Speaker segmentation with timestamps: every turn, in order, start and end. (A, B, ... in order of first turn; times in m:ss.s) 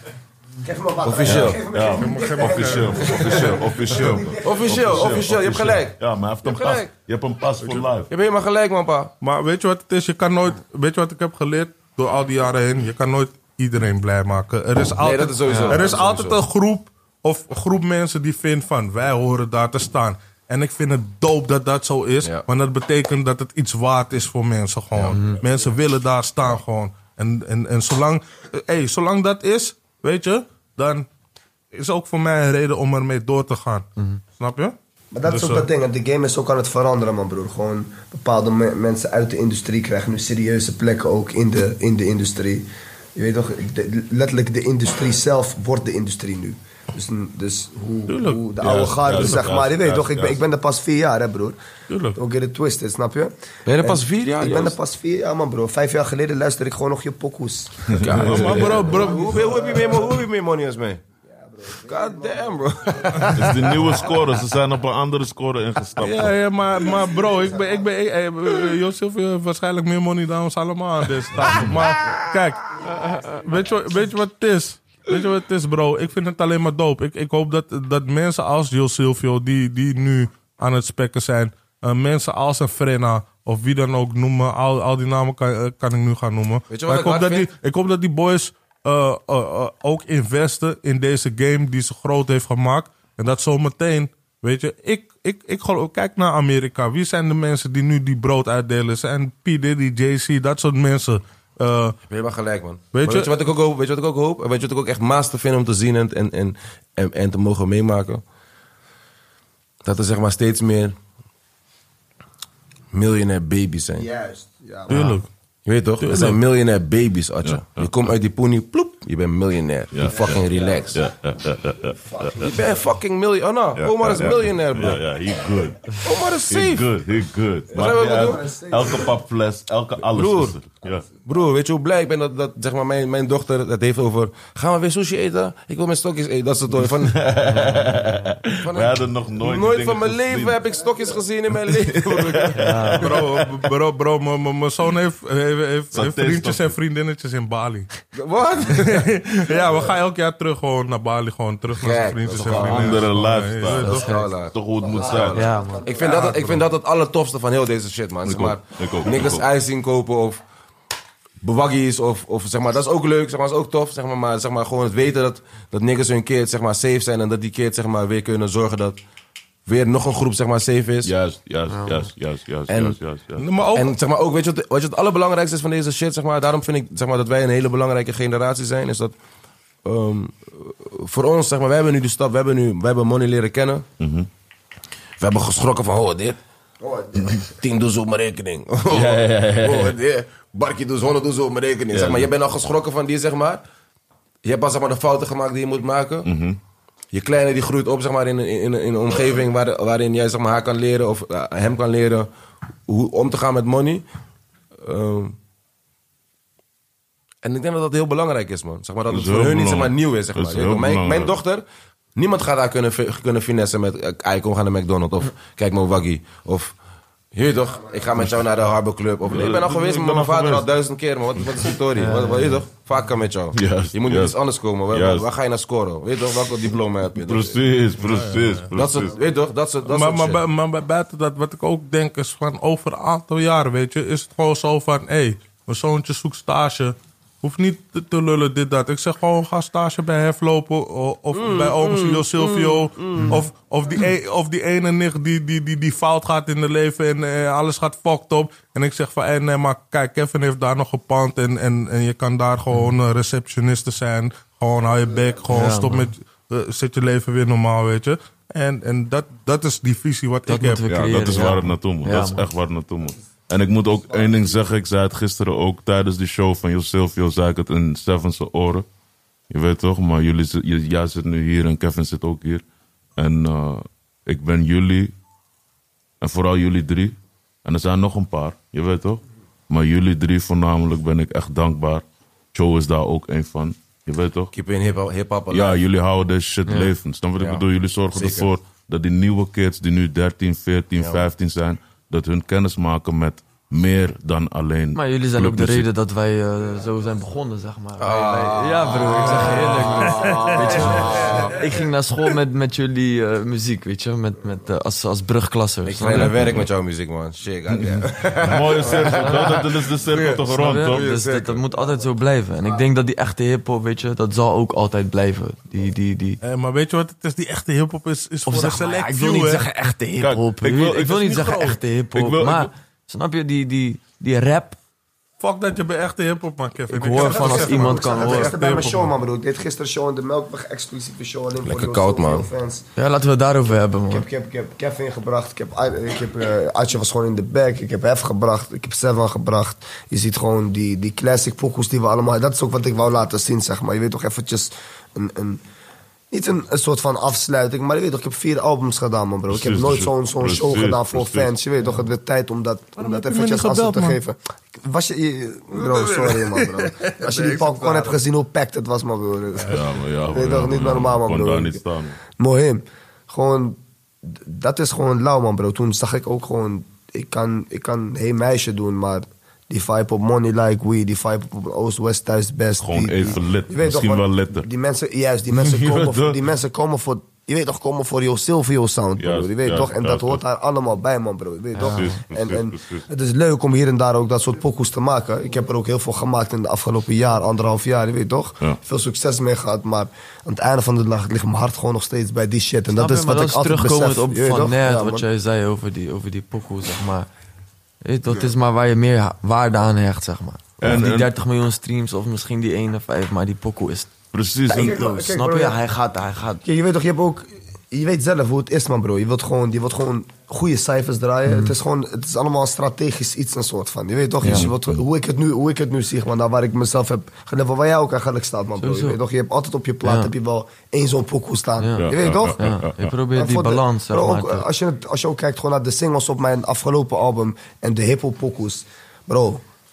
0:00.6-0:05.2 A
0:01.0-0:01.6 B
0:01.2-0:08.1 C
0:01.9-0:03.0 D
0:03.1-0:03.6 B
0:04.4-0:06.9 B
0:08.1-0:09.1 B
0:09.2-0:31.1 D
0:15.0-0:16.4 B
0:15.5-0:15.8 E
0:31.7-0:34.7 D
0:35.1-0:51.6 A
0:35.2-0:35.6 D
0:48.1-0:48.5 D
0:48.6-0:50.4 C
0:49.1-0:49.4 D
0:51.9-0:52.2 D
0:52.1-0:58.0 A
0:53.6-0:54.8 B
0:57.9-0:58.8 C
0:58.0-1:01.0 B
0:58.2-0:59.4 D
0:58.9-1:00.1 A
1:01.3-1:03.4 A
1:01.8-1:03.7 B
1:03.3-1:06.4 C
1:06.0-1:12.7 D
1:13.3-1:42.0 D
1:26.7-1:27.5 B
1:42.1-1:48.2 B
1:42.9-1:43.3 D
1:49.8-1:50.9 B
1:52.9-1:54.1 B
1:53.9-1:55.1 A
1:54.9-1:55.3 D
1:55.6-2:01.0 B
1:56.0-1:56.4 D
1:57.4-1:57.9 C
1:59.9-2:02.5 C
2:00.1-2:01.0 A
2:02.0-2:02.6 A
2:02.4-2:05.0 B
2:03.8-2:05.8 C
2:06.0-2:06.9 B
2:06.5-2:11.1 C
2:07.7-2:09.0 A
2:07.7-2:08.4 B
2:10.0-2:10.6 B
2:11.2-2:17.2 B
2:16.9-2:20.6 C
2:17.5-2:18.0 E
2:18.6-2:23.2 B
2:21.7-2:23.2 C
2:22.6-2:23.1 E
2:23.0-2:27.9 D
2:25.9-2:26.7 C
2:28.1-2:29.6 B
2:28.7-2:34.1 D
2:31.7-2:33.1 B
2:32.5-2:35.5 C
2:33.7-2:40.4 B
2:34.8-2:36.4 A
2:35.3-2:35.9 E
2:36.0-2:36.6 D
2:38.2-2:39.5 C
2:41.4-2:49.0 B
2:49.7-2:51.1 B
2:51.0-2:53.4 C
2:51.7-2:52.0 E
2:52.7-2:53.0 B
2:53.4-2:54.0 D
2:53.7-2:59.1 B
2:59.8-3:03.8 B
3:04.0-3:04.3 C
3:05.2-3:06.4 B
3:06.8-3:07.4 A
3:07.4-3:13.6 B
3:08.9-3:10.0 C
3:11.9-3:12.3 C
3:14.4-3:16.3 B
3:16.2-3:16.6 C
3:17.1-3:22.3 B
3:22.9-3:24.0 B
3:24.8-3:25.3 B
3:27.4-3:31.6 B
3:29.1-3:31.4 C
3:32.2-3:36.7 B
3:37.3-3:47.6 B
3:39.2-3:40.7 C
3:42.0-3:42.6 E
3:43.5-3:44.4 C
3:44.9-3:45.3 C
3:47.2-3:49.2 C
3:48.0-3:48.7 D
3:48.7-3:50.4 B
3:49.8-4:21.1 D
4:01.4-4:03.4 B
4:15.5-4:16.1 E
4:20.5-4:22.4 E
4:20.9-4:28.8 C
4:29.5-4:32.6 C
4:33.2-4:35.1 C
4:36.2-4:44.5 C
4:44.5-4:45.8 B
4:45.5-4:55.9 C
4:46.7-4:46.9 E
4:48.1-4:48.5 B
4:51.0-4:51.3 B
4:54.9-5:06.4 E
4:58.0-5:01.6 B
5:00.0-5:00.8 D
5:05.8-5:11.6 B
5:06.3-5:06.7 C
5:07.8-5:11.0 C
5:08.8-5:09.6 E
5:10.2-5:16.4 E
5:16.4-5:19.6 D
5:18.4-5:24.8 E
5:20.2-5:21.1 C
5:21.0-5:21.8 D
5:22.1-5:22.7 C
5:25.4-5:29.1 D
5:26.9-5:28.6 E
5:27.2-5:32.8 A
5:31.6-5:32.5 B
5:33.0-5:34.2 E
5:34.1-5:45.6 A
5:46.3-6:35.3 A
5:49.5-5:51.5 C
5:53.0-5:54.2 D
5:55.8-5:58.1 D
5:59.7-6:02.2 C
6:12.8-6:14.7 C
6:15.5-6:16.4 C
6:19.2-6:20.4 C
6:21.7-6:22.2 E
6:21.8-6:23.0 C
6:32.9-6:37.3 E
6:38.0-6:44.1 E
6:40.8-6:41.3 C
6:44.3-6:45.0 C
6:44.7-6:45.8 A
6:44.7-6:46.6 E
6:46.6-7:02.6 A
6:51.5-6:51.7 E
6:54.4-6:54.9 C
6:54.4-6:54.7 E
6:58.8-6:59.2 E
7:00.0-7:00.3 E
7:01.8-7:04.6 E
7:02.0-7:03.2 C
7:03.3-7:09.6 A